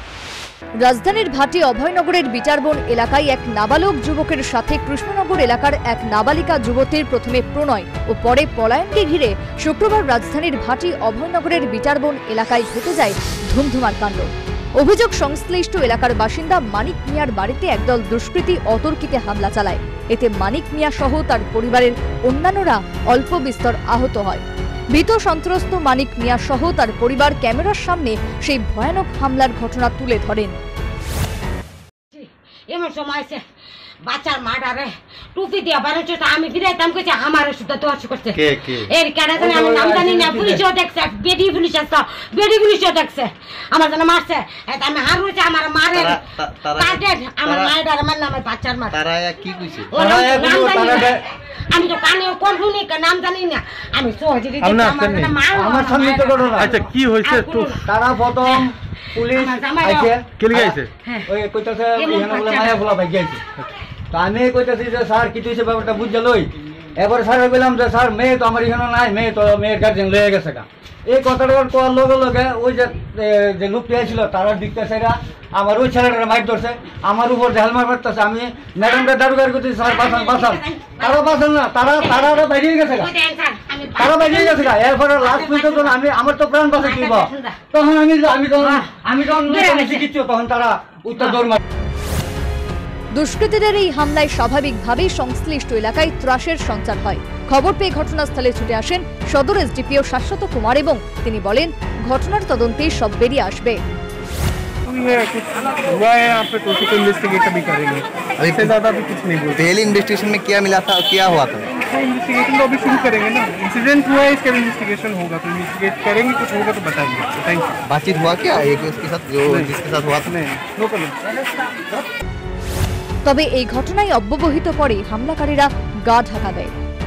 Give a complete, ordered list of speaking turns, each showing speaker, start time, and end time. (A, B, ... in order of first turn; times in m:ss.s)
0:00.8-0:30.6 A
0:32.1-0:33.4 B
0:34.0-0:49.0 B
0:38.3-0:38.9 C
0:39.4-0:40.6 D
0:45.9-0:47.7 C
0:48.9-0:49.9 C
0:49.9-0:57.9 B
0:50.0-0:51.2 D
0:54.6-0:55.4 E
0:55.5-0:56.8 D
0:56.6-0:57.7 E
0:57.8-1:03.4 D
0:58.4-1:00.1 B
1:00.4-1:00.9 E
1:02.0-1:02.8 B
1:04.1-1:23.1 D
1:19.8-1:26.0 B
1:24.0-1:31.6 D
1:26.7-1:27.6 B
1:28.6-1:30.1 B
1:33.1-1:43.8 A
1:44.8-1:49.8 E
1:48.4-1:48.7 C
1:49.5-1:51.7 C
1:51.8-1:57.8 E
1:57.8-2:00.3 C
1:59.4-2:01.2 E
2:03.2-2:06.7 A